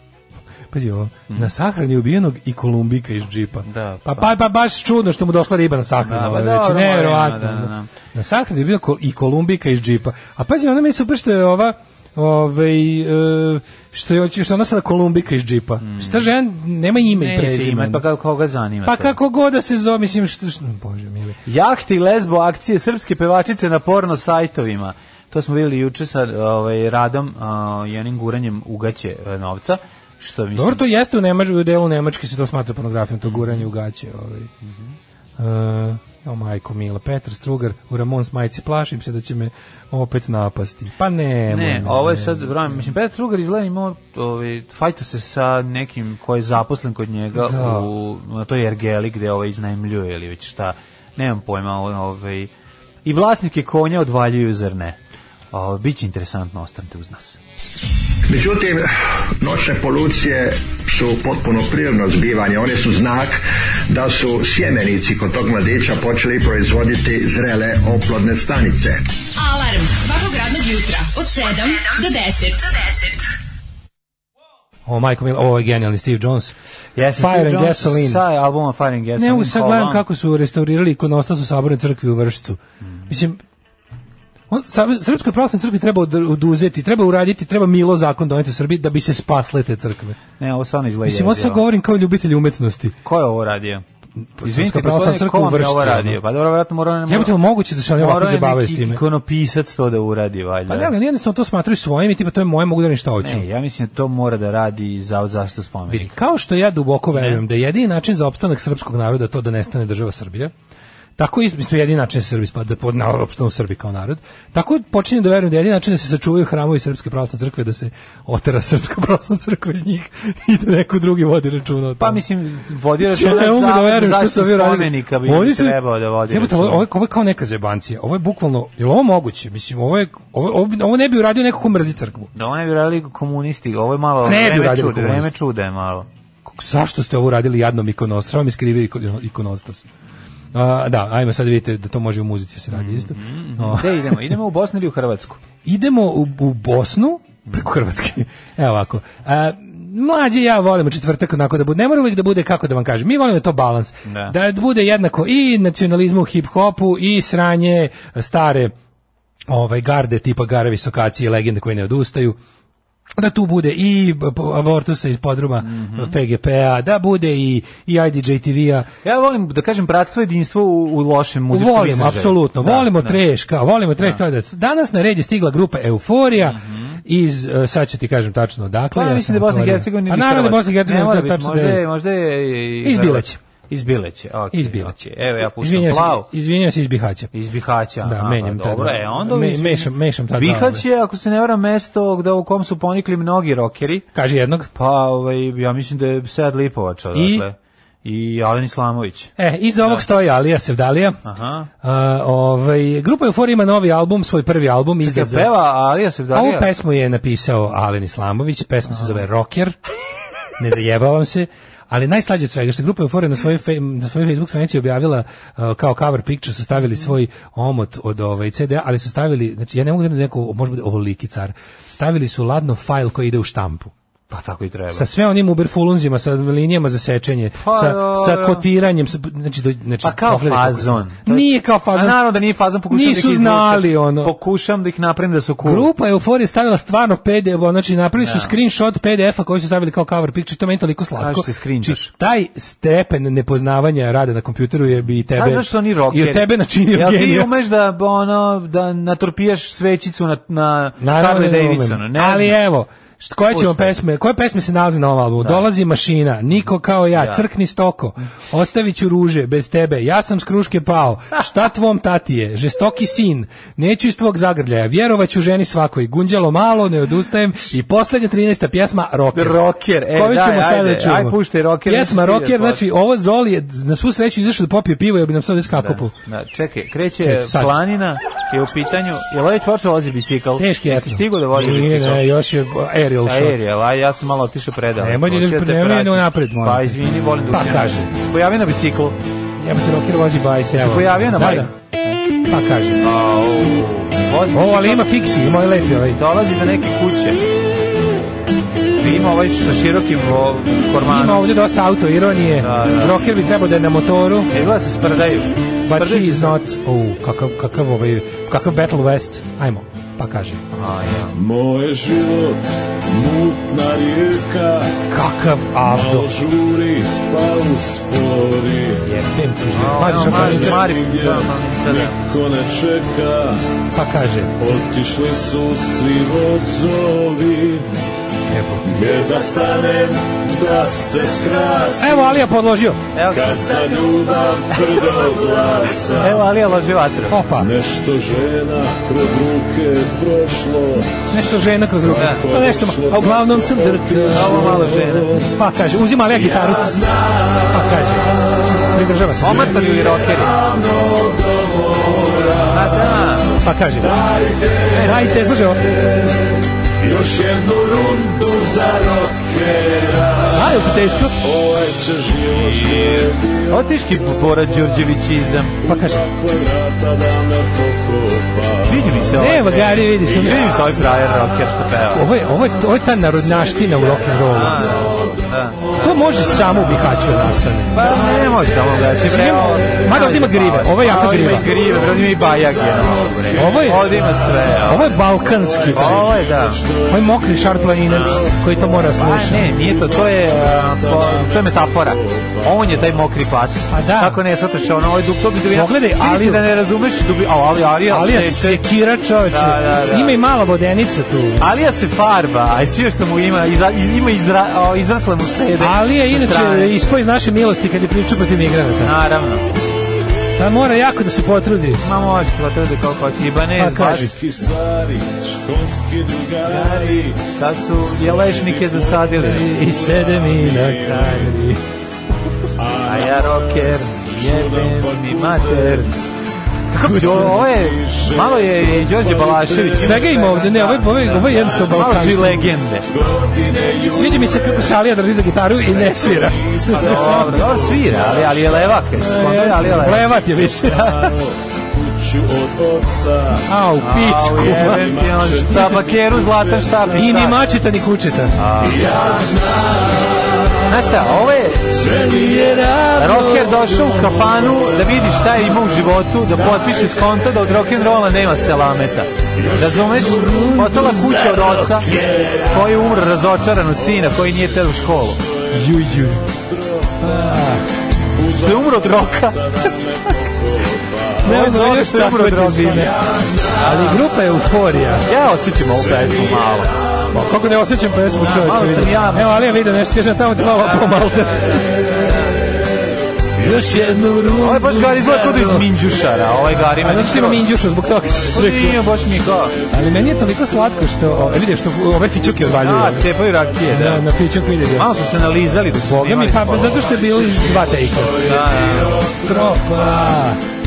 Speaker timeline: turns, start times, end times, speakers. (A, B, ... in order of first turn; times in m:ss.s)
0:00.7-0:18.0 A
0:03.6-0:04.3 B
0:06.0-0:07.9 B
0:15.8-0:16.3 B
0:17.0-0:19.2 B
0:18.8-0:21.4 A
0:21.4-0:30.8 B
0:30.5-0:34.5 A
0:33.2-0:33.6 B
0:34.6-0:34.9 B
0:35.4-0:42.8 A
0:41.5-0:52.5 B
0:47.3-0:47.9 A
0:53.0-0:55.0 B
0:55.5-0:57.4 B
0:58.3-1:09.0 C
1:09.4-1:13.2 D
1:14.8-1:16.5 A
1:17.0-1:20.0 B
1:17.2-1:18.2 A
1:19.2-1:23.4 A
1:24.5-1:30.2 A
1:30.4-1:31.6 B
1:31.0-1:32.9 A
1:33.0-1:33.8 B
1:34.4-1:36.2 A
1:34.4-1:37.4 B
1:37.1-1:39.0 A
1:38.0-1:40.9 B
1:40.7-1:43.4 A
1:43.2-1:46.1 B
1:45.9-1:50.5 A
1:47.1-1:47.4 B
1:51.2-2:02.2 A
2:02.0-2:06.8 B
2:03.0-2:12.3 A
2:12.3-2:16.1 B
2:14.2-2:15.3 A
2:16.4-2:19.8 A
2:20.5-2:24.3 A
2:22.7-2:25.4 B
2:25.6-2:38.7 A
2:34.0-2:34.4 B
2:39.5-2:42.4 A
2:43.2-2:48.9 A
2:45.6-2:46.1 B
2:49.0-2:53.2 B
2:51.5-3:01.8 A
2:56.4-2:57.0 B
2:58.9-3:06.3 B
3:02.8-3:03.4 A
3:04.5-3:07.3 A
3:07.3-3:14.0 B
3:08.0-3:10.8 A
3:14.1-3:14.7 A
3:14.7-3:20.0 B
3:17.1-3:17.4 A
3:19.4-3:21.2 A
3:21.2-3:21.7 B
3:21.8-3:25.5 A
3:25.0-3:26.7 B
3:26.3-3:29.8 A
3:30.6-3:43.9 A
3:44.3-3:45.1 B
3:44.9-3:52.2 A
3:47.6-3:48.6 B
3:50.0-3:55.9 B
3:52.9-3:54.3 A
3:55.6-4:07.5 A
3:58.2-3:58.5 B
4:01.2-4:02.1 B
4:05.3-4:12.6 B
4:11.0-4:29.6 A
4:13.5-4:13.9 B
4:15.4-4:15.6 B
4:17.1-4:17.4 B
4:29.3-4:32.8 B
4:30.1-4:36.1 A
4:35.7-4:42.2 B
4:37.2-4:37.7 A
4:40.6-4:43.6 A
4:43.2-4:49.2 B
4:45.0-4:48.1 A
4:49.6-4:51.7 A
4:50.7-4:52.2 B
4:52.5-4:53.0 A
4:53.0-4:55.1 B
4:54.5-4:56.2 A
4:56.1-4:57.4 B
4:59.0-5:01.4 B
5:01.0-5:04.5 A
5:02.6-5:03.1 B
5:04.5-5:06.6 B
5:05.8-5:10.6 A
5:10.7-5:11.4 B
5:11.3-5:15.0 E
5:15.1-5:16.3 A
5:15.8-5:19.1 E
5:19.0-5:20.9 A
5:19.7-5:22.2 B
5:20.0-5:23.7 E
5:23.9-5:24.6 A
5:24.6-5:27.9 E
5:28.5-5:28.9 A
5:28.8-5:32.3 E
5:32.0-5:33.0 A
5:33.1-5:33.7 B
5:33.3-5:36.5 E
5:36.2-5:37.4 B
5:37.3-5:37.7 A
5:37.5-5:41.2 E
5:41.3-5:44.8 A
5:42.0-5:45.5 E
5:42.1-5:42.4 B
5:44.3-5:45.4 B
5:45.4-5:47.0 A
5:46.3-5:47.8 E
5:47.6-5:49.8 A
5:49.4-5:50.6 B
5:49.5-5:53.2 E
5:52.7-5:53.5 B
5:53.6-5:54.1 A
5:54.0-5:55.4 E
5:54.9-5:55.2 B
5:54.9-5:55.8 A
5:57.0-6:00.6 E
6:00.4-6:01.4 A
6:01.4-6:05.0 E
6:02.5-6:05.8 B
6:05.8-6:09.4 E
6:05.8-6:06.2 A
6:08.8-6:12.3 B
6:09.3-6:10.7 A
6:10.2-6:11.2 E
6:12.1-6:15.0 A
6:13.5-6:15.5 E
6:14.4-6:16.0 B
6:16.0-6:18.2 A
6:16.0-6:19.1 E
6:17.9-6:25.1 B
6:19.2-6:21.7 A
6:21.0-6:33.2 E
6:23.5-6:26.3 A
6:25.9-6:26.8 B
6:27.1-6:29.7 A
6:29.1-6:38.8 B
6:33.9-6:34.4 A
6:35.7-6:36.6 A
6:38.1-6:41.7 A
6:39.5-6:40.4 B
6:41.6-6:46.9 B
6:45.8-6:49.1 A
6:49.0-6:49.7 B
6:50.5-6:52.0 A
6:52.0-6:54.3 B
6:53.7-6:54.4 A
6:54.2-6:57.5 E
6:56.6-6:59.7 B
6:58.0-7:01.5 E
6:59.4-7:01.8 A
7:01.0-7:01.4 B
7:02.8-7:06.2 E
7:03.0-7:06.2 B
7:06.9-7:13.1 B
7:07.0-7:07.7 A
7:07.3-7:12.0 E
7:10.0-7:12.7 A
7:13.1-7:14.9 E
7:14.1-7:17.7 A
7:15.8-7:19.1 E
7:16.9-7:21.3 B
7:19.2-7:21.1 A
7:20.4-7:23.6 E
7:23.6-7:25.2 A
7:24.0-7:27.6 B
7:24.5-7:27.4 E
7:27.1-7:28.6 A
7:28.6-7:29.1 B
7:28.8-7:30.4 E
7:30.8-7:32.1 B
7:31.9-7:36.0 E
7:32.2-7:33.9 A
7:33.2-7:45.4 B
7:36.5-7:37.4 E
7:39.5-7:47.6 E
7:40.2-7:41.8 A
7:45.7-7:46.4 A
7:47.2-7:47.9 A
7:48.3-7:51.5 E
7:48.5-7:49.6 B
7:51.4-7:53.2 B
7:51.4-7:53.2 A
7:53.7-7:55.3 A
7:53.7-7:54.2 B
7:55.2-7:56.9 B
7:55.9-7:56.8 E
7:57.3-8:01.9 A
7:58.3-7:59.5 B
8:00.8-8:02.5 B
8:03.6-8:05.9 A
8:03.6-8:03.9 E
8:04.6-8:07.6 B
8:07.0-8:09.1 A
8:08.5-8:09.8 B
8:09.5-8:11.6 E
8:09.9-8:13.3 A
8:12.7-8:14.2 B
8:13.8-8:15.1 A
8:14.9-8:17.1 B
8:15.2-8:15.8 E
8:16.0-8:18.5 A
8:16.9-8:20.4 E
8:18.4-8:19.3 B
8:19.3-8:20.6 A